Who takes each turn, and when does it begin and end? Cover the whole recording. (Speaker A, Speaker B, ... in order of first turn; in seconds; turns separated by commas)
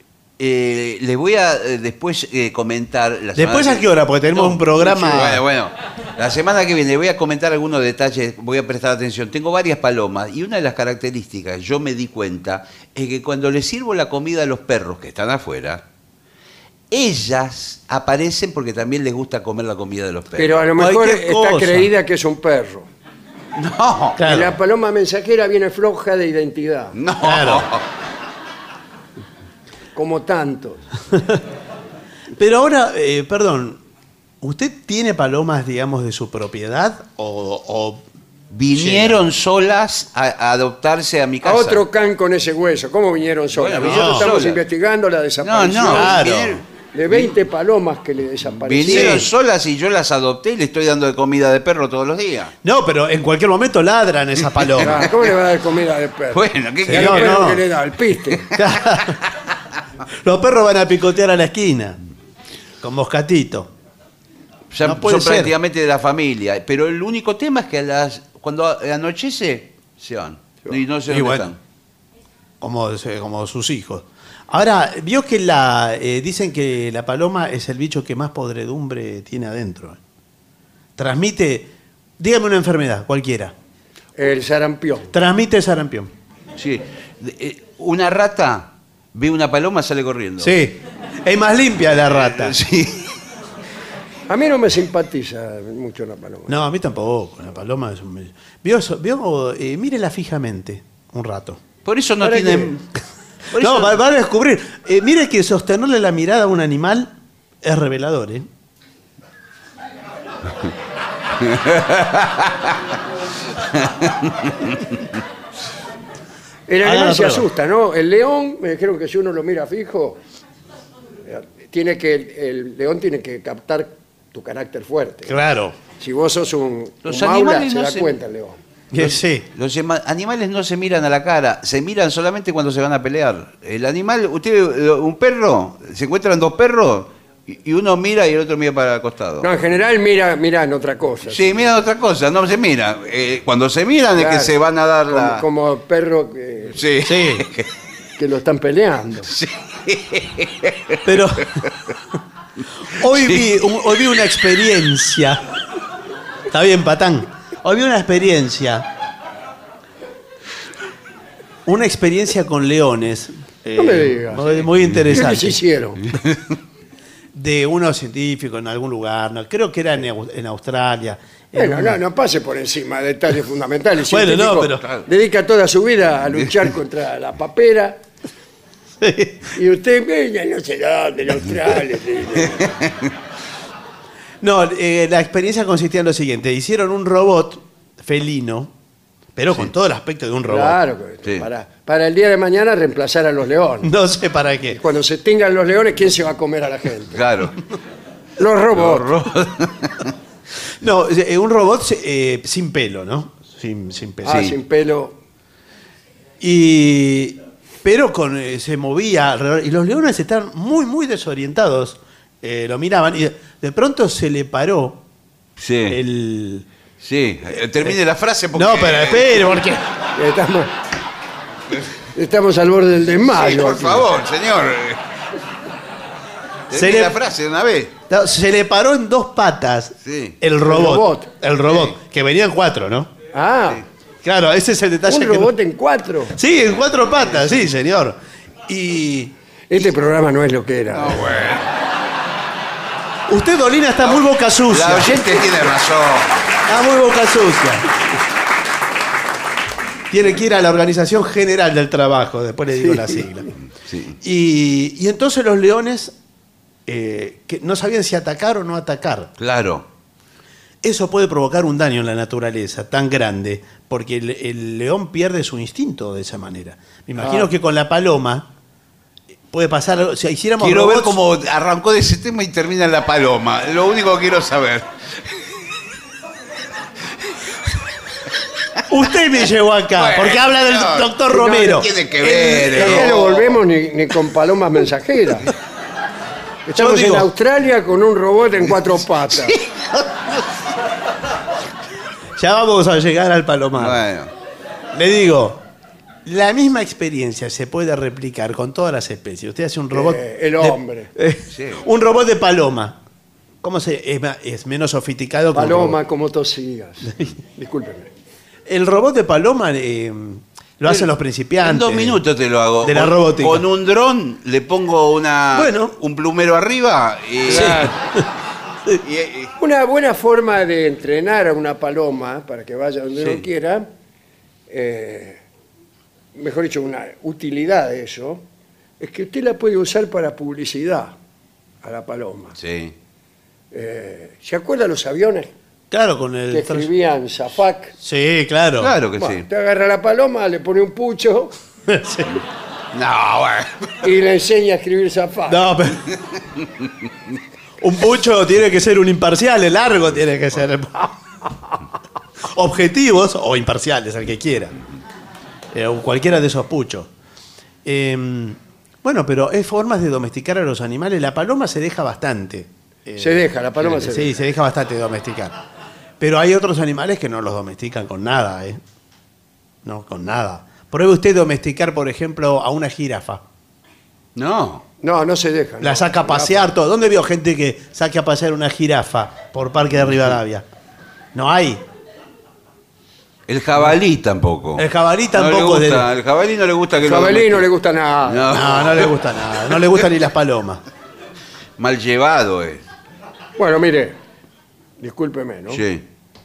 Speaker A: 0.4-15.8, Speaker B: 3.4-5.4, Speaker A: 16.9-20.7, Speaker C: 20.4-22.9, Speaker B: 20.8-21.9, Speaker A: 23.5-24.2, Speaker B: 24.2-24.5, Speaker C: 24.2-26.9, Speaker A: 26.9-27.8, Speaker B: 27.2-27.7, Speaker C: 29.9-30.9, Speaker B: 32.4-33.8, Speaker B: 34.4-38.0, Speaker A: 38.5-41.8, Speaker B: 38.7-39.2, Speaker C: 41.4-46.2, Speaker A: 43.5-44.6, Speaker B: 43.8-44.3, Speaker A: 45.4-47.3, Speaker B: 45.9-46.6, Speaker C: 46.9-49.3, Speaker A: 48.6-52.5, Speaker B: 48.9-49.3, Speaker B: 52.6-55.0, Speaker C: 54.8-58.5, Speaker A: 56.3-57.5, Speaker B: 56.8-57.6, Speaker B: 58.5-59.2, Speaker B: 60.2-62.0, Speaker B: 62.8-63.7, Speaker A: 64.7-71.6, Speaker B: 64.8-65.5, Speaker B: 71.1-71.5, Speaker B: 72.6-80.0, Speaker B: 81.0-83.5, Speaker C: 84.2-85.1, Speaker B: 85.1-86.1, Speaker A: 86.6-90.5, Speaker B: 90.4-92.5, Speaker A: 92.2-93.1, Speaker C: 94.3-96.5, Speaker B: 96.5-101.6, Speaker A: 101.8-102.8, Speaker C: 102.2-102.7, Speaker A: 103.5-104.0, Speaker B: 103.6-107.1, Speaker B: 107.6-108.5, Speaker A: 111.4-112.5, Speaker A: 113.8-114.7, Speaker C: 116.7-120.2, Speaker B: 116.8-117.5, Speaker C: 121.2-125.3, Speaker B: 125.2-125.7, Speaker C: 126.0-128.6, Speaker A: 127.0-128.1, Speaker B: 128.9-129.4, Speaker A: 129.0-139.5, Speaker C: 139.4-141.7, Speaker A: 141.3-145.4, Speaker C: 144.2-144.5, Speaker C: 145.1-146.8, Speaker A: 146.8-147.7, Speaker B: 147.0-147.4, Speaker C: 148.2-149.3, Speaker A: 149.3-150.9, Speaker B: 151.0-151.6, Speaker B: 152.9-155.4, Speaker A: 153.1-153.4, Speaker B: 156.5-158.9, Speaker B: 161.7-165.6, Speaker C: 163.8-166.0, Speaker B: 167.3-172.0, Speaker C: 171.5-178.0, Speaker B: 174.1-174.8, Speaker B: 179.0-179.5, Speaker C: 179.5-182.8, Speaker B: 184.4-188.7, Speaker B: 189.3-190.8, Speaker C: 190.5-193.9, Speaker B: 193.8-194.8, Speaker C: 194.7-197.2, Speaker A: 197.1-197.6, Speaker C: 198.4-199.1, Speaker A: 198.7-200.1, Speaker B: 200.8-204.5, Speaker C: 204.2-205.2, Speaker A: 204.3-204.5, Speaker B: 206.4-215.0, Speaker A: 215.6-216.0, Speaker B: 215.9-216.7, Speaker A: 217.0-219.6, Speaker B: 218.5-219.8, Speaker C: 220.1-220.7, Speaker C: 222.1-224.1, Speaker A: 223.3-225.0, Speaker A: 226.7-227.9, Speaker B: 226.7-227.1, Speaker B: 228.1-233.1, Speaker A: 230.0-230.4, Speaker C: 230.6-231.3, Speaker C: 233.3-233.8, Speaker B: 234.2-235.5, Speaker C: 235.1-236.3, Speaker B: 236.3-239.8, Speaker C: 239.7-241.4, Speaker A: 240.9-241.7, Speaker B: 243.3-245.3, Speaker A: 244.0-246.4, Speaker B: 246.7-247.8, Speaker B: 250.1-253.5, Speaker A: 253.9-254.1, Speaker B: 254.2-256.1, Speaker B: 256.9-259.3, Speaker A: 259.4-259.8, Speaker B: 260.8-268.5, Speaker B: 269.5-271.2, Speaker A: 270.6-274.9, Speaker B: 278.9-281.9, Speaker A: 279.9-281.1, Speaker C: 281.3-285.5, Speaker A: 281.7-283.5, Speaker C: 286.6-289.6, Speaker B: 286.7-287.3, Speaker B: 292.4-294.0, Speaker A: 293.8-294.3, Speaker B: 294.9-295.6, Speaker B: 296.2-303.0, Speaker C: 299.9-301.1, Speaker A: 301.5-301.8, Speaker B: 303.6-306.0, Speaker C: 305.5-308.1, Speaker B: 308.7-312.2, Speaker A: 311.6-317.9, Speaker B: 312.8-313.6, Speaker B: 315.5-315.9, Speaker C: 317.5-317.9, Speaker B: 317.5-317.9, Speaker A: 319.0-319.5, Speaker C: 319.6-323.9, Speaker A: 323.2-323.4, Speaker C: 324.7-325.4, Speaker C: 326.3-328.4, Speaker C: 329.0-331.1, Speaker C: 331.8-332.5, Speaker A: 332.6-332.9, Speaker C: 333.7-335.5, Speaker B: 335.9-336.9, Speaker C: 336.5-337.9, Speaker B: 338.0-338.9, Speaker A: 338.8-339.4, Speaker C: 339.2-341.5, Speaker B: 341.9-342.4, Speaker A: 342.9-343.9, Speaker C: 344.0-345.7, Speaker B: 345.5-346.0, Speaker B: 347.8-351.1, Speaker B: 352.4-354.8, Speaker B: 355.7-357.1, Speaker B: 357.8-365.5, Speaker C: 363.2-364.4, Speaker B: 366.2-368.8, Speaker B: 369.8-373.4, Speaker A: 374.4-374.8, Speaker C: 375.0-376.7, Speaker B: 375.8-380.6, Speaker B: 381.3-381.8, Speaker A: 383.5-387.7, Speaker B: 384.8-386.1, Speaker C: 387.0-388.6, Speaker A: 388.2-389.1, Speaker B: 388.5-390.8, Speaker A: 391.8-392.8, Speaker C: 393.6-394.1, Speaker C: 395.0-395.8, Speaker A: 395.7-396.0